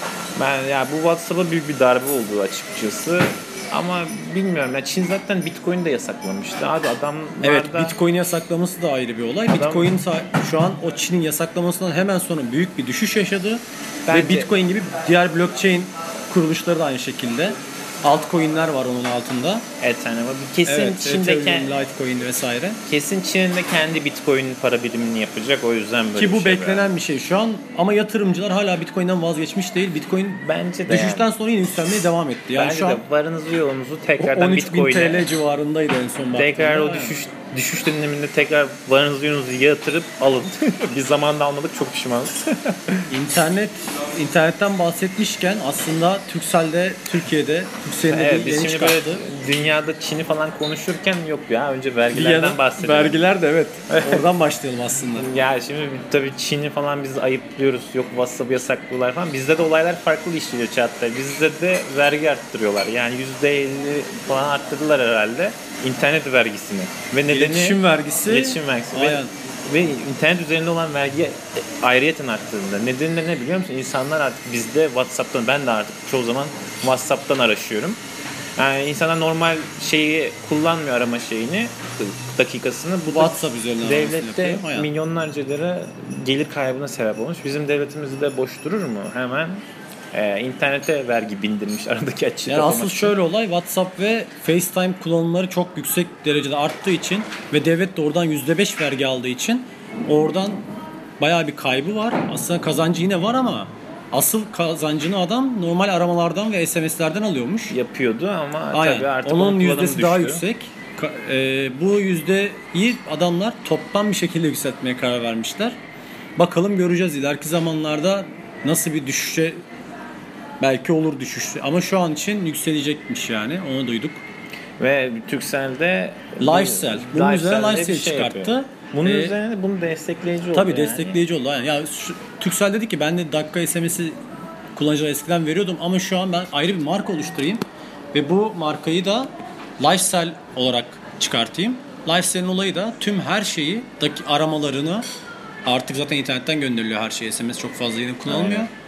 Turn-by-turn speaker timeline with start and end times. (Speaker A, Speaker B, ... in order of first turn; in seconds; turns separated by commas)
Speaker A: 0.4-8.0, Speaker B: 7.4-19.6, Speaker A: 9.5-9.9, Speaker A: 14.1-14.5, Speaker A: 19.8-21.8, Speaker B: 20.6-22.8, Speaker A: 22.9-26.8, Speaker B: 26.1-33.0, Speaker A: 30.4-31.3, Speaker A: 32.5-35.2, Speaker B: 34.2-37.1, Speaker A: 36.3-43.1, Speaker B: 43.1-49.2, Speaker A: 48.1-53.2, Speaker B: 52.1-55.3, Speaker A: 53.9-54.2, Speaker A: 55.1-78.0, Speaker B: 67.3-69.3, Speaker A: 78.6-93.2, Speaker B: 83.1-84.9, Speaker B: 92.5-100.6, Speaker B: 101.2-107.8, Speaker A: 107.7-110.4, Speaker B: 108.7-115.8, Speaker B: 116.4-119.6, Speaker B: 120.6-124.2, Speaker A: 124.8-131.2, Speaker B: 126.4-129.3, Speaker B: 130.5-134.2, Speaker B: 134.8-137.6, Speaker B: 138.1-145.0, Speaker B: 145.6-148.7, Speaker A: 148.2-148.7